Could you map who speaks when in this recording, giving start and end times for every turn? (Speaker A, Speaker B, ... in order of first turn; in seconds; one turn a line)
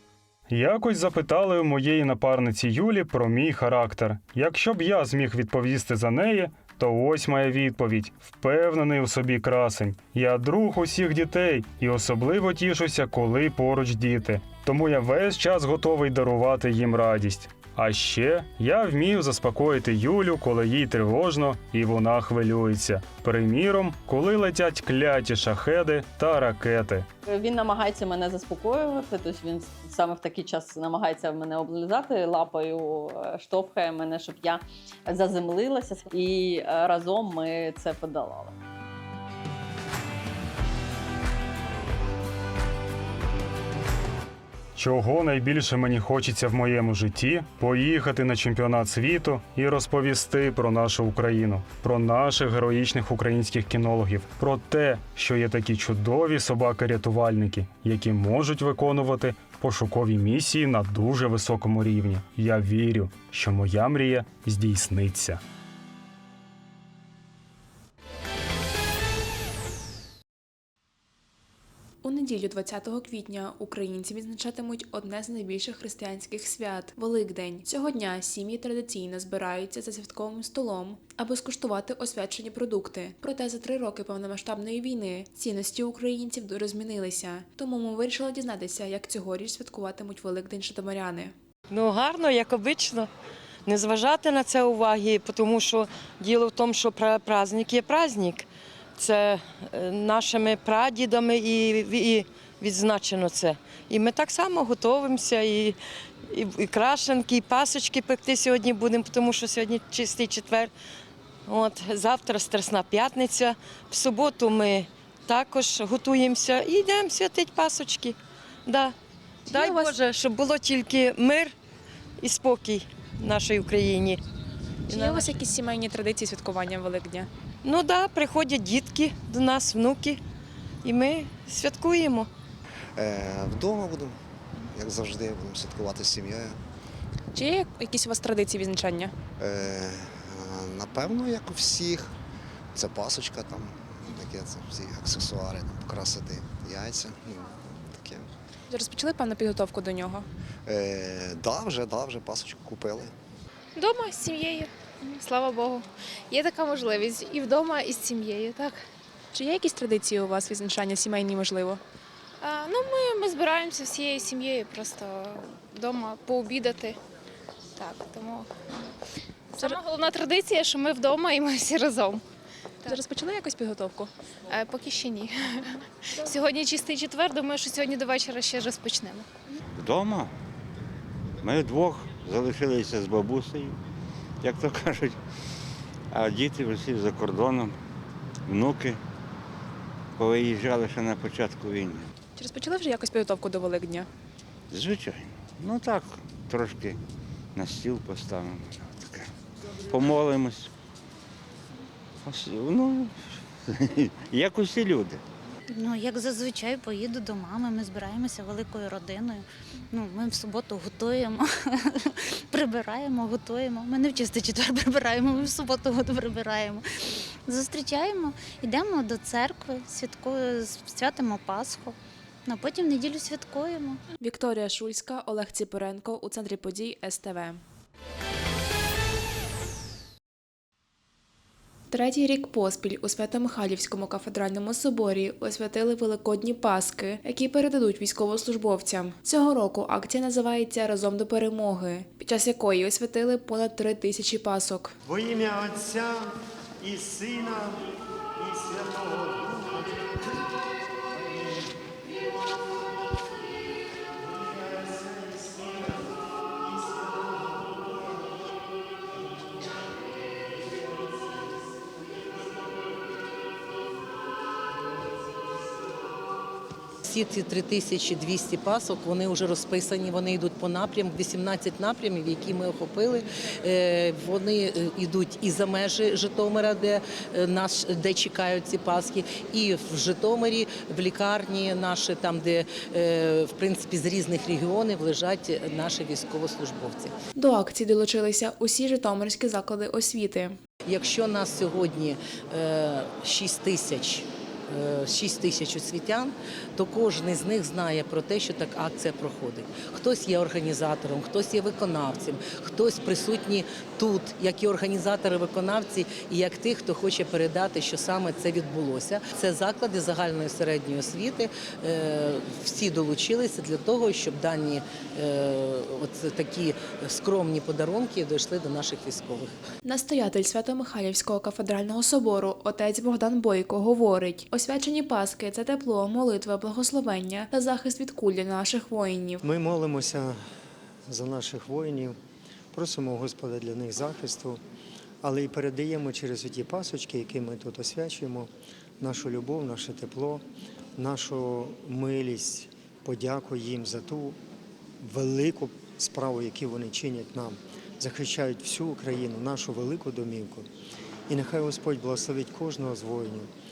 Speaker A: 0.5-27.1
Speaker B: 27.3-38.5
Speaker A: 44.8-65.4
Speaker C: 72.0-91.3
Speaker D: 91.7-93.1
Speaker D: 93.7-98.5
Speaker D: 99.0-105.8
Speaker D: 106.3-110.7
Speaker D: 111.5-119.0
Speaker D: 119.5-121.5
Speaker C: 119.5-119.9
Speaker D: 122.2-124.2
Speaker D: 124.9-125.5
Speaker C: 124.9-127.3
Speaker D: 127.6-130.2
Speaker D: 130.8-132.3
Speaker E: 133.0-134.1
Speaker E: 134.7-136.6
Speaker C: 137.3-139.1
Speaker E: 139.4-142.1
Speaker E: 142.7-148.3
Speaker C: 148.7-150.3
Speaker E: 150.7-153.1
Speaker F: 153.8-158.8
Speaker C: 159.3-161.8
Speaker F: 162.4-167.0
Speaker F: 167.8-168.5
Speaker F: 169.5-172.2
Speaker C: 172.9-174.1
Speaker F: 174.5-179.3
Speaker G: 179.8-180.3
Speaker G: 181.4-183.8
Speaker G: 184.4-185.2
Speaker G: 186.1-187.8
Speaker G: 188.5-189.0
Speaker G: 190.2-192.1
Speaker C: 192.4-194.1
Speaker G: 194.7-197.0
Speaker G: 197.6-199.3
Speaker G: 199.9-200.7
Speaker G: 202.2-205.2
Speaker H: 205.7-216.8
Speaker H: 217.5-224.0
Speaker C: 224.2-227.6
Speaker C: 231.9-244.9
Speaker I: 245.0-250.2
Speaker I: 251.1-251.8
Speaker I: 254.2-256.0
Speaker I: 256.7-257.0
Speaker J: 267.1-287.2
Speaker C: 287.4-290.6
Speaker J: 290.9-319.5
Speaker C: 319.8-329.4
Speaker I: 329.4-330.4
Speaker I: 331.1-332.2
Speaker I: 332.7-334.6
Speaker I: 335.2-340.4
Speaker I: 341.0-344.4
Speaker I: 345.0-350.7
Speaker I: 351.3-353.5